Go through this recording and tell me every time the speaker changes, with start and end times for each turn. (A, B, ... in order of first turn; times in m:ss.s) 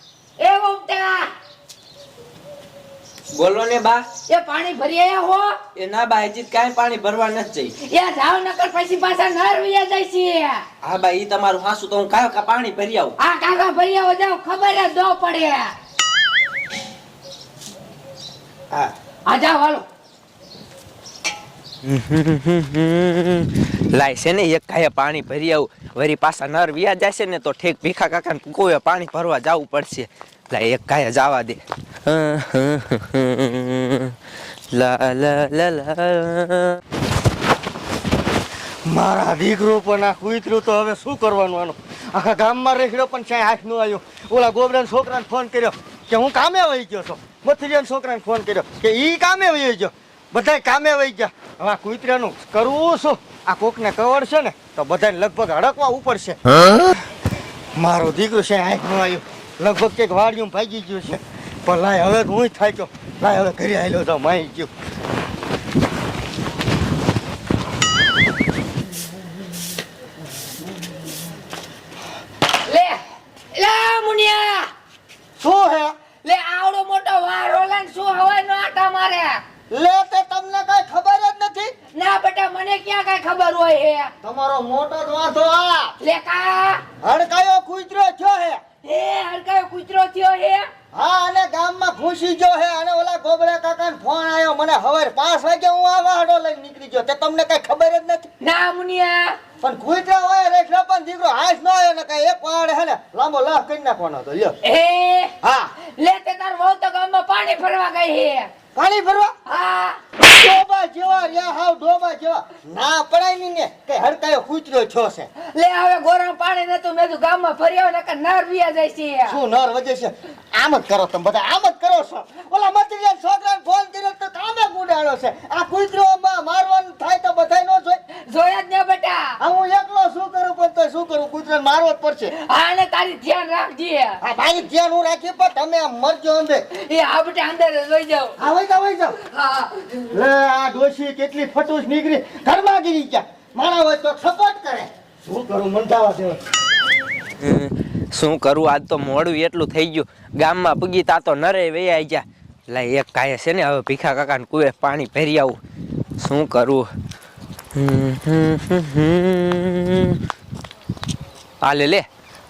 0:00.4-0:01.3 A
0:03.3-0:04.1 B
0:04.3-0:05.6 A
0:05.7-0:07.7 B
0:07.8-0:10.6 A
0:10.8-0:13.2 B
0:13.2-0:15.7 A
0:19.2-0:19.8 A
0:21.8-0:34.2 B
0:34.7-0:36.8 B
0:38.8-0:56.4 C
0:57.7-1:04.7 C
1:12.6-1:13.0 A
1:13.5-1:14.7 A
1:15.4-1:15.9 C
1:16.2-1:19.4 A
1:19.7-1:21.7 C
1:21.9-1:24.1 A
1:24.2-1:25.9 C
1:26.0-1:26.8 A
1:27.0-1:28.6 C
1:28.8-1:30.7 A
1:30.9-1:38.3 C
1:38.4-1:39.4 A
1:39.6-1:44.5 C
1:44.6-1:45.3 A
1:45.4-1:45.7 C
1:45.9-1:48.5 A
1:48.7-1:49.3 C
1:49.4-1:50.0 A
1:50.2-1:55.3 C
1:55.4-1:59.4 A
1:59.3-2:08.0 C
2:08.2-2:09.4 A
2:09.4-2:12.3 C
2:12.3-2:14.2 A
2:14.2-2:16.6 C
2:16.7-2:18.4 A
2:18.4-2:19.1 C
2:19.3-2:20.1 A
2:20.1-2:26.4 C
2:27.4-2:35.6 B
2:36.2-2:36.9 B
2:37.7-2:40.2 B
2:41.6-2:42.1 B